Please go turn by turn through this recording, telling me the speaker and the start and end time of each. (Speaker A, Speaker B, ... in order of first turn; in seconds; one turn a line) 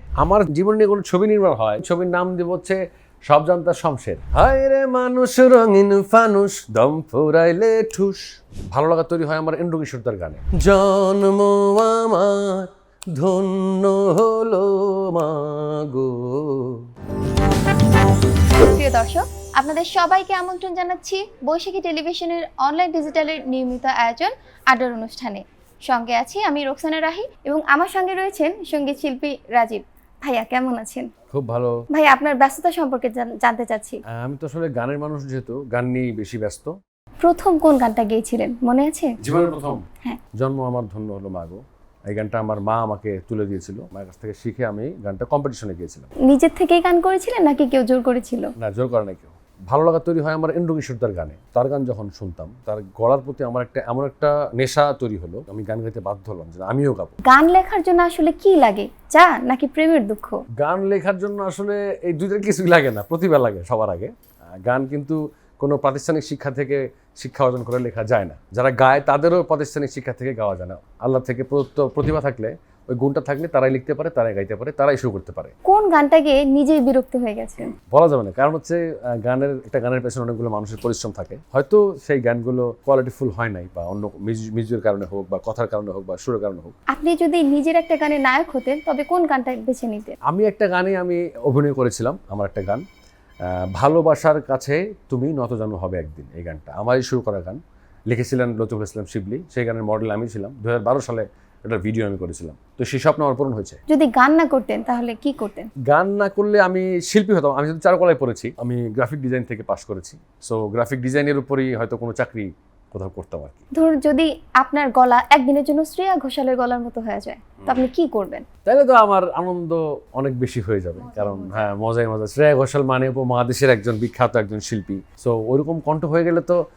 Speaker A: 0.2-16.8
Speaker B: 18.6-31.1
Speaker A: 31.3-31.8
Speaker B: 31.9-34.0
Speaker A: 34.1-36.7
Speaker B: 37.2-39.1
Speaker A: 39.2-39.8
Speaker A: 40.4-46.1
Speaker B: 46.2-48.5
Speaker A: 48.6-57.2
Speaker B: 57.2-60.4
Speaker A: 60.6-75.5
Speaker B: 75.7-77.7
Speaker A: 77.9-86.7
Speaker B: 86.9-90.2
Speaker A: 90.3-92.8
Speaker A: 93.5-103.8
Speaker B: 103.9-105.7
Speaker A: 105.9-113.6
Speaker B: 113.8-118.5
Speaker A: 118.7-126.6
Speaker B: 121.0-121.7